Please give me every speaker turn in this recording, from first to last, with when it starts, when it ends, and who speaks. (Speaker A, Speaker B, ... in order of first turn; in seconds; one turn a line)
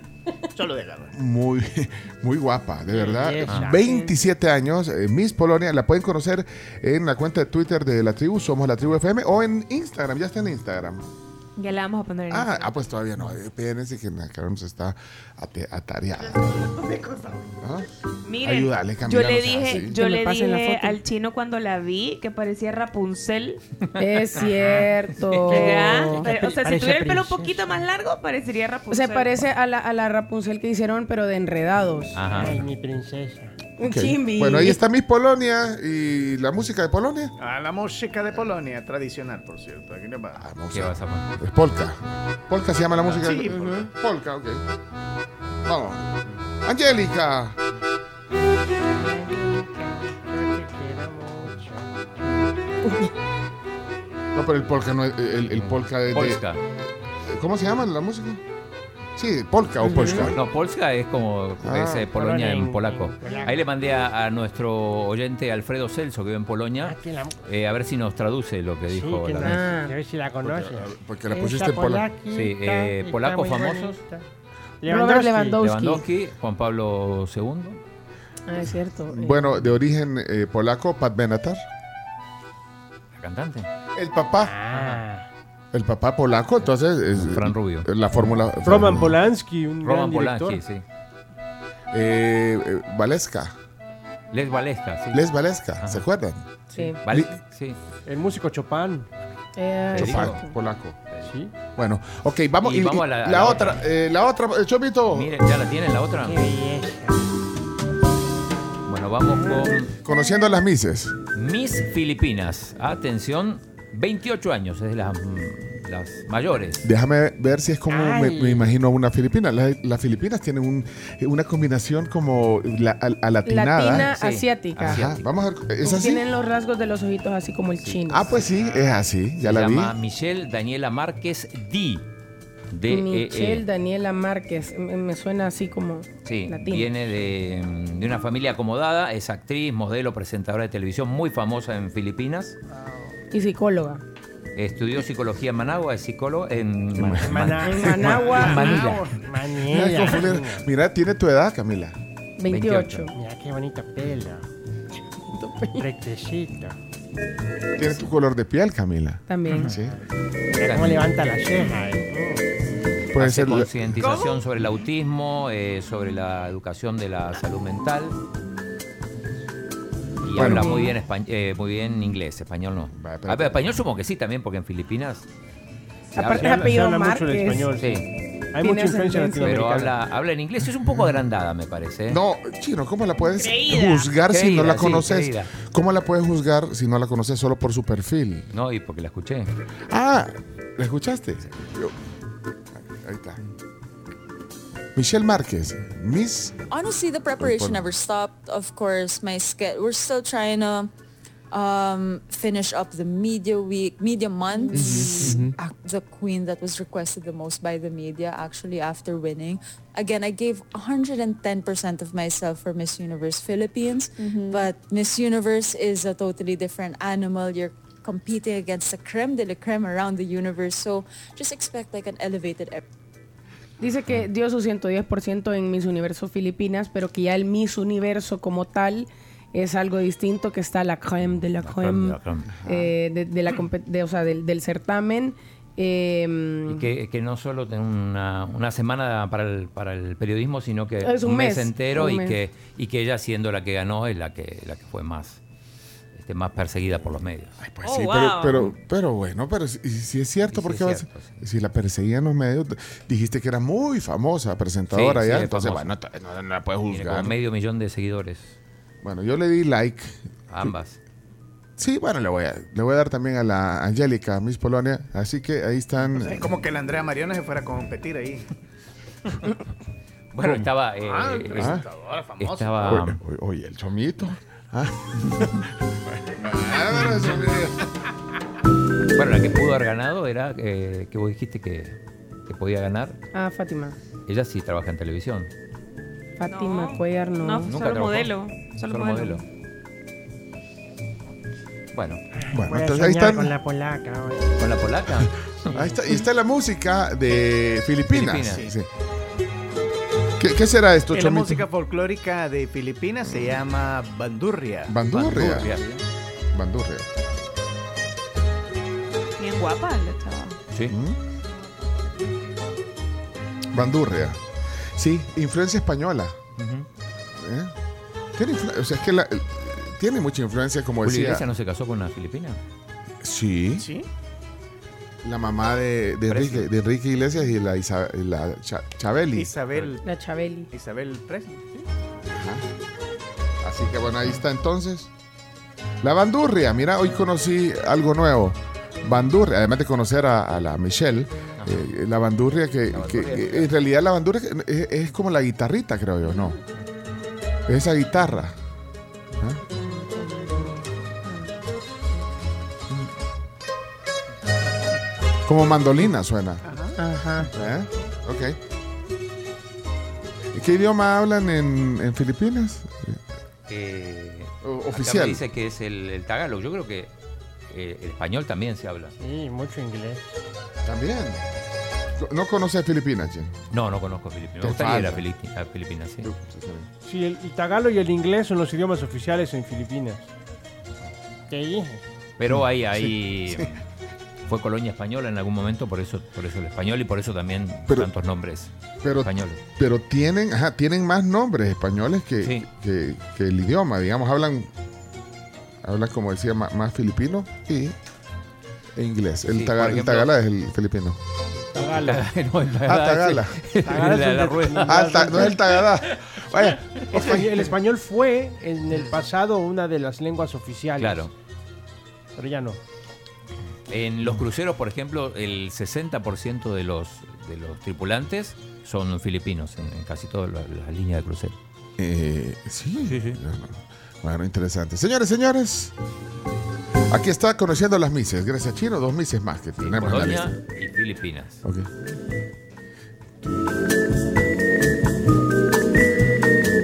Speaker A: 0.5-1.2
Speaker B: 1.1-11.1
Speaker C: 2.9-4.1
Speaker D: 3.5-3.8
Speaker E: 11.6-12.7
Speaker B: 12.3-16.6
Speaker A: 16.7-17.5
Speaker B: 17.6-17.9
Speaker E: 18.2-23.6
Speaker B: 18.4-20.0
Speaker F: 19.9-21.0
Speaker F: 24.0-26.3
Speaker D: 24.3-25.6
Speaker C: 24.4-24.8
Speaker C: 25.5-27.8
Speaker E: 25.5-29.4
Speaker F: 28.9-32.2
Speaker D: 32.1-32.7
Speaker C: 32.3-33.5
Speaker F: 33.8-34.8
Speaker B: 33.8-37.3
Speaker A: 37.4-40.5
Speaker B: 40.4-44.6
Speaker D: 40.7-41.3
Speaker A: 43.0-43.9
Speaker F: 43.5-43.8
Speaker B: 45.6-47.6
Speaker C: 49.0-51.9
Speaker B: 54.3-56.4
Speaker D: 55.5-56.6
Speaker B: 57.3-58.4
Speaker B: 59.1-60.4
Speaker F: 59.9-60.3
Speaker D: 59.9-69.7
Speaker B: 61.6-62.1
Speaker C: 62.1-63.7
Speaker C: 66.8-67.4
Speaker C: 68.9-74.2
Speaker F: 69.4-69.9
Speaker B: 70.4-72.1
Speaker D: 72.3-74.0
Speaker C: 74.8-75.6
Speaker F: 74.9-76.0
Speaker D: 75.6-77.8
Speaker F: 78.5-79.7
Speaker B: 78.6-81.6
Speaker D: 83.1-83.7
Speaker B: 83.9-84.6
Speaker C: 84.4-85.3
Speaker D: 84.7-85.0
Speaker B: 85.7-89.2
Speaker D: 86.6-87.9
Speaker C: 88.6-90.6
Speaker D: 89.8-90.8
Speaker B: 91.9-93.5
Speaker D: 94.3-95.2
Speaker B: 95.1-96.4
Speaker D: 95.8-96.0
Speaker F: 96.7-97.0
Speaker D: 97.0-97.8
Speaker B: 97.1-97.3
Speaker C: 98.0-99.1
Speaker F: 99.5-100.5
Speaker B: 99.9-101.0
Speaker D: 99.9-100.5
Speaker D: 101.1-101.3
Speaker C: 101.2-101.5
Speaker B: 101.8-105.4
Speaker D: 102.6-103.8
Speaker D: 105.1-106.5
Speaker C: 106.2-107.3
Speaker D: 108.8-109.9
Speaker C: 109.2-109.9
Speaker B: 110.0-111.1
Speaker D: 111.3-116.9
Speaker B: 116.8-124.1
Speaker C: 117.9-118.7
Speaker F: 123.4-125.0
Speaker D: 123.9-125.2
Speaker B: 124.8-126.3
Speaker F: 125.8-128.3
Speaker D: 127.8-132.1
Speaker B: 128.1-129.9
Speaker D: 132.7-133.6
Speaker F: 132.9-136.9
Speaker D: 136.2-142.6
Speaker C: 142.7-143.2
Speaker F: 143.3-144.0
Speaker D: 144.5-149.2
Speaker B: 146.9-148.1
Speaker C: 147.2-150.7
Speaker F: 147.6-148.7
Speaker B: 149.7-152.0
Speaker F: 152.4-153.1
Speaker D: 152.5-153.1
Speaker C: 153.1-154.4
Speaker F: 155.3-155.8
Speaker C: 155.8-156.8
Speaker B: 157.8-160.0
Speaker F: 159.3-159.7
Speaker C: 159.6-160.0
Speaker D: 160.5-161.8
Speaker C: 160.5-162.4
Speaker B: 163.1-163.8
Speaker D: 163.1-168.2
Speaker E: 164.0-164.3
Speaker D: 170.2-175.3
Speaker B: 170.3-170.8
Speaker F: 170.3-171.0
Speaker B: 172.9-173.8
Speaker F: 176.1-177.7
Speaker D: 176.1-176.7
Speaker C: 176.3-178.0
Speaker D: 177.8-178.1
Speaker C: 178.5-180.0
Speaker F: 178.6-179.7
Speaker D: 179.4-182.2
Speaker B: 180.8-181.2
Speaker B: 182.1-188.5
Speaker E: 183.2-184.1
Speaker D: 184.3-185.5
Speaker D: 188.5-189.5
Speaker B: 189.9-191.9
Speaker B: 192.7-193.4
Speaker B: 194.9-196.6
Speaker G: 196.7-200.9
Speaker B: 197.4-197.9
Speaker G: 201.5-222.8
Speaker B: 204.9-205.5
Speaker F: 223.8-236.9
Speaker D: 231.6-232.5
Speaker B: 232.6-232.9
Speaker D: 236.7-245.4
Speaker F: 241.0-242.4
Speaker D: 246.1-247.6
Speaker B: 247.6-257.4
Speaker E: 247.8-248.7
Speaker D: 250.5-251.4
Speaker D: 254.9-255.9
Speaker D: 256.9-258.6
Speaker B: 259.0-260.7
Speaker D: 260.5-261.0
Speaker B: 261.8-266.4
Speaker A: 266.1-268.5
Speaker D: 270.3-273.2
Speaker B: 270.4-270.7
Speaker A: 271.0-273.0
Speaker B: 272.9-277.9
Speaker D: 279.1-283.2
Speaker F: 283.3-284.0
Speaker D: 284.3-285.5
Speaker F: 286.4-287.7
Speaker E: 286.5-289.4
Speaker D: 287.6-289.4
Speaker D: 291.9-292.2
Speaker C: 292.3-294.6
Speaker B: 292.5-293.6
Speaker D: 294.6-295.5
Speaker B: 295.2-298.9
Speaker C: 295.7-296.2
Speaker D: 298.1-298.7
Speaker A: 298.5-298.8
Speaker B: 300.4-301.6
Speaker A: 301.1-305.0
Speaker B: 303.3-303.5
Speaker B: 304.9-305.8
Speaker D: 305.1-306.0
Speaker B: 306.5-307.1
Speaker E: 309.4-310.6
Speaker B: 310.9-311.2
Speaker E: 311.5-311.8
Speaker B: 313.7-314.4
Speaker B: 314.9-316.4
Speaker D: 316.6-316.9
Speaker B: 317.4-317.7
Speaker B: 318.4-321.4
Speaker D: 321.0-322.6
Speaker B: 323.2-323.8
Speaker A: 323.8-324.1
Speaker B: 325.2-329.5
Speaker D: 326.3-326.7
Speaker A: 329.3-330.0
Speaker F: 330.0-330.7
Speaker A: 330.7-331.9
Speaker B: 332.3-332.6
Speaker B: 333.6-335.1
Speaker B: 336.0-346.6
Speaker D: 341.6-341.8
Speaker D: 342.9-343.7
Speaker B: 347.7-348.5
Speaker B: 349.4-349.6
Speaker F: 349.8-350.8
Speaker B: 355.4-356.6
Speaker A: 356.6-357.0
Speaker F: 357.0-357.5
Speaker B: 357.5-358.6
Speaker B: 360.5-363.2
Speaker D: 363.7-367.1
Speaker B: 364.6-365.4
Speaker D: 367.7-369.1
Speaker C: 369.2-370.4
Speaker B: 370.8-371.4
Speaker B: 372.2-373.5
Speaker D: 373.7-376.3
Speaker B: 374.6-375.2
Speaker B: 376.2-376.9
Speaker C: 377.0-380.3
Speaker C: 381.5-382.0
Speaker D: 382.4-383.8
Speaker B: 382.5-383.8
Speaker D: 384.5-389.6
Speaker B: 389.0-394.7
Speaker D: 392.4-392.7
Speaker B: 395.8-397.9
Speaker B: 398.9-401.2
Speaker D: 399.5-400.4
Speaker C: 401.7-402.2
Speaker D: 402.0-405.1
Speaker B: 402.8-403.6
Speaker C: 403.8-405.8
Speaker B: 404.8-407.7
Speaker C: 407.1-411.3
Speaker D: 411.0-411.3
Speaker C: 412.4-412.8
Speaker D: 413.9-421.6
Speaker B: 422.0-425.9
Speaker D: 423.0-423.4
Speaker B: 427.1-430.6
Speaker D: 429.8-431.6
Speaker B: 431.6-431.9